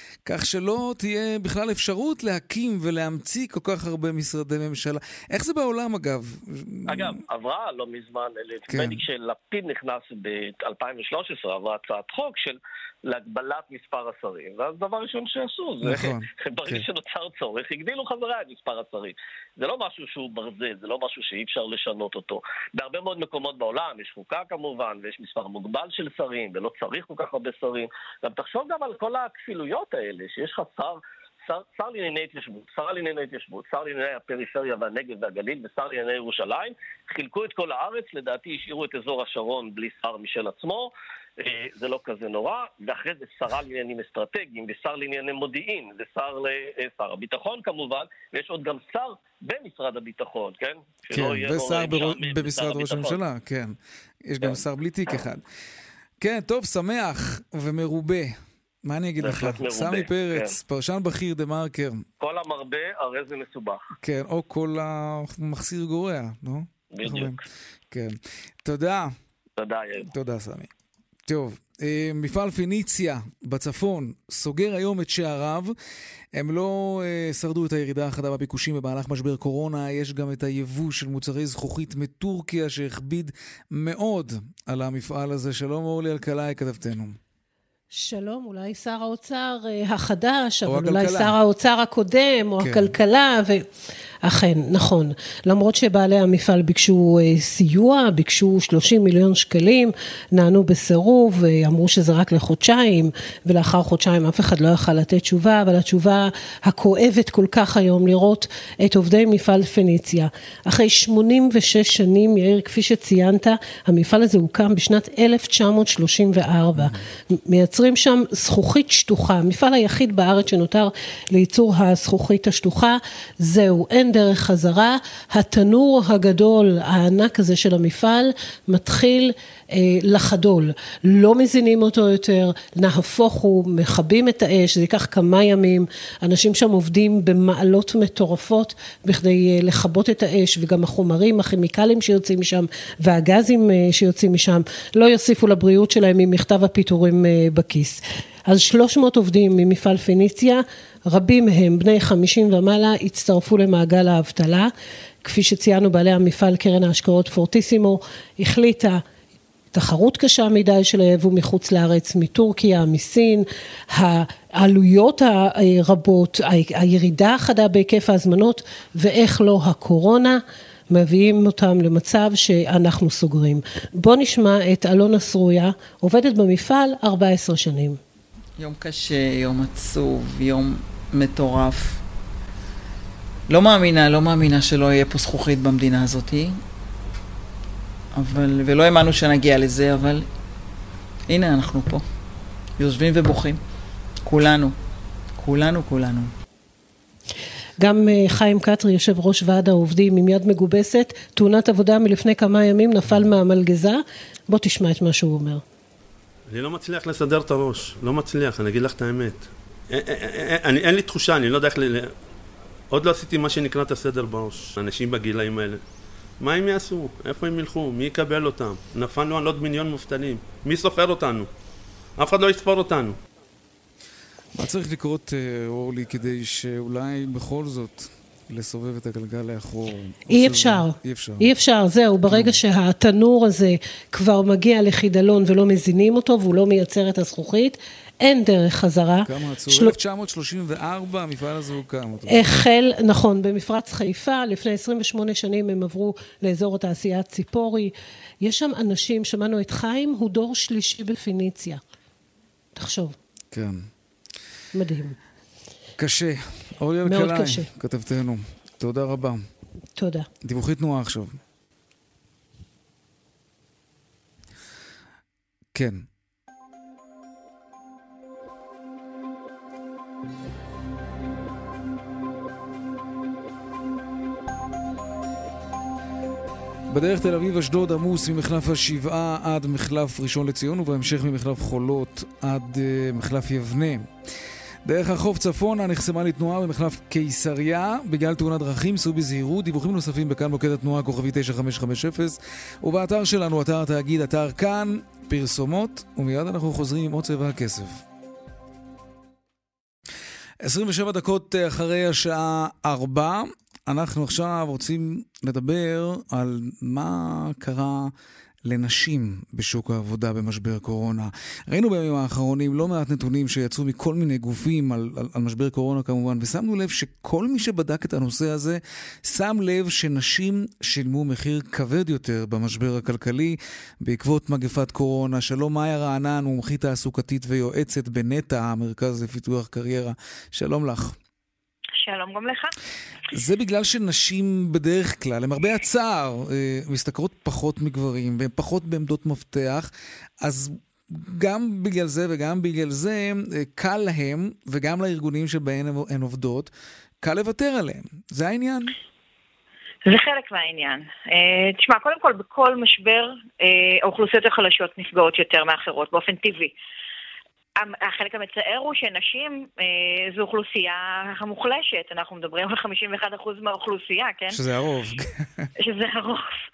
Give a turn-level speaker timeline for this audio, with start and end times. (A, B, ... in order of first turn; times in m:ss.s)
0:00.2-0:07.2 A
0:06.9-0:53.2 B
0:08.7-0:09.0 A
0:15.8-0:16.8 A
0:51.1-0:55.4 A
0:56.2-1:02.0 A
0:59.2-1:00.5 B
1:02.2-1:03.8 B
1:04.0-1:09.1 A
1:06.9-1:07.4 B
1:09.6-1:10.1 B
1:10.1-1:10.7 A
1:11.3-1:15.7 A
1:16.3-1:27.2 A
1:27.9-1:33.7 C
1:30.6-1:31.4 A
1:32.6-1:33.0 A
1:34.2-2:34.7 C
2:35.2-2:39.0 C
2:39.7-2:58.0 C
2:58.6-3:02.0 D
3:03.5-3:06.6 D
3:08.1-3:10.3 D
3:11.3-3:12.0 D
3:12.8-3:13.6 D
3:14.2-3:14.8 D
3:15.4-3:16.3 D
3:17.8-3:25.6 C
3:26.5-3:32.1 E
3:32.9-3:35.8 E
3:36.4-3:41.5 E
3:42.2-3:43.2 E
3:44.5-3:51.5 A
3:50.3-4:00.0 C
3:52.3-3:52.6 A
3:59.2-4:02.5 A
4:02.3-4:11.8 C
4:12.8-4:13.2 C
4:13.5-4:13.9 A
4:14.7-4:15.2 C
4:16.0-4:19.4 A
4:17.0-4:17.7 C
4:20.0-4:20.3 C
4:20.4-4:21.4 A
4:25.7-4:26.0 A
4:36.9-4:44.1 A
4:44.8-4:58.0 A
5:00.6-5:08.1 A
5:08.6-5:31.2 A
5:32.0-5:32.7 F
5:33.3-5:39.9 A
5:40.4-5:48.9 A
5:50.0-5:56.7 F
5:57.8-6:04.6 F
6:04.5-6:05.7 A
6:05.8-6:06.6 F